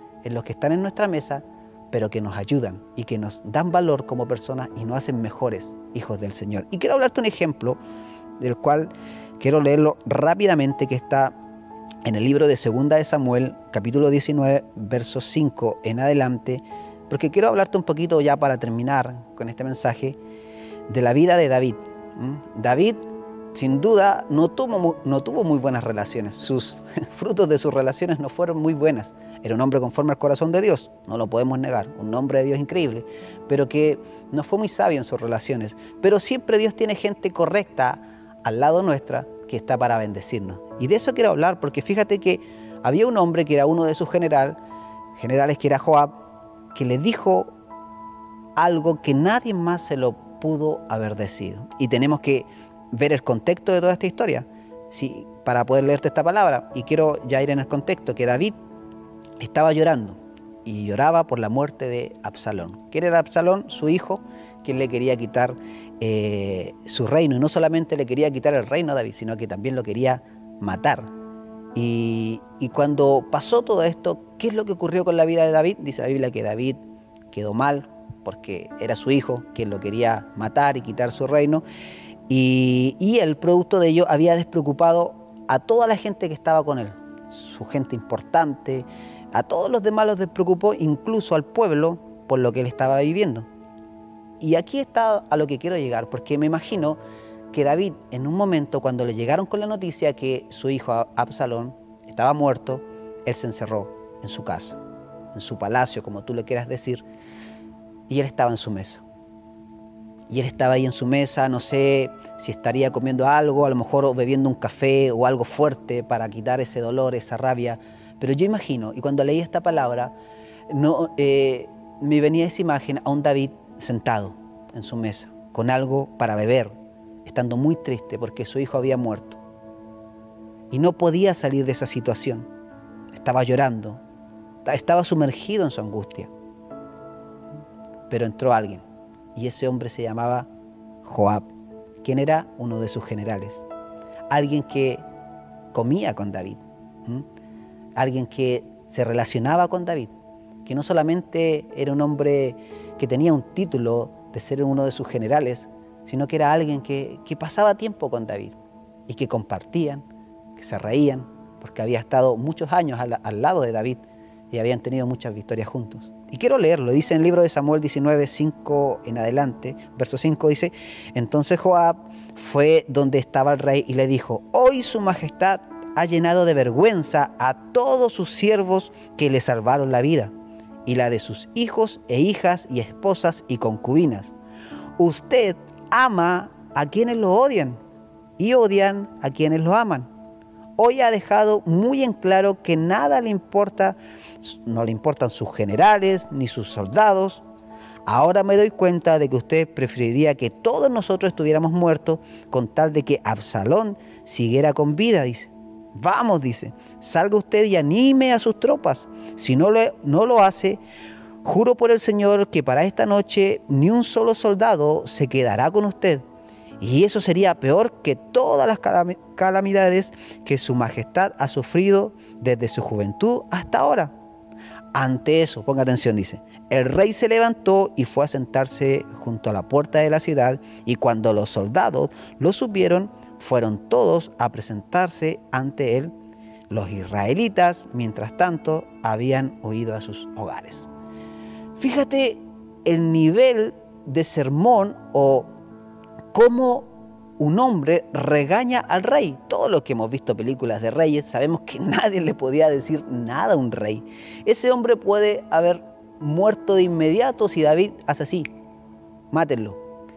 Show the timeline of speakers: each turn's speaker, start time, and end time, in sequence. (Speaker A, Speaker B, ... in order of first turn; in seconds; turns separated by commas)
Speaker A: 0.2-7.8, Speaker A: 8.4-11.4, Speaker A: 12.0-20.2, Speaker A: 20.9-44.6, Speaker A: 45.2-46.1, Speaker A: 46.7-47.5, Speaker A: 48.6-58.6, Speaker A: 59.4-71.1, Speaker A: 71.8-81.6, Speaker A: 82.3-93.5, Speaker A: 94.4-97.0, Speaker A: 97.5-104.8, Speaker A: 105.3-107.0, Speaker A: 108.1-109.0, Speaker A: 110.3-120.2, Speaker A: 120.7-126.7, Speaker A: 127.2-129.4, Speaker A: 130.7-132.5, Speaker A: 133.1-134.0, Speaker A: 134.7-136.3, Speaker A: 138.1-138.8, Speaker A: 139.4-140.5, Speaker A: 141.0-141.5, Speaker A: 142.0-143.7, Speaker A: 144.3-145.0, Speaker A: 145.7-147.2, Speaker A: 148.0-150.1, Speaker A: 150.7-158.6, Speaker A: 159.1-160.1, Speaker A: 160.6-180.3, Speaker A: 180.9-184.3, Speaker A: 185.0-187.8, Speaker A: 188.4-190.1, Speaker A: 190.8-197.4, Speaker A: 198.1-210.8, Speaker A: 211.4-216.2, Speaker A: 216.8-224.1, Speaker A: 224.9-236.1, Speaker A: 236.7-240.9, Speaker A: 241.8-245.5, Speaker A: 246.3-258.5, Speaker A: 259.3-259.8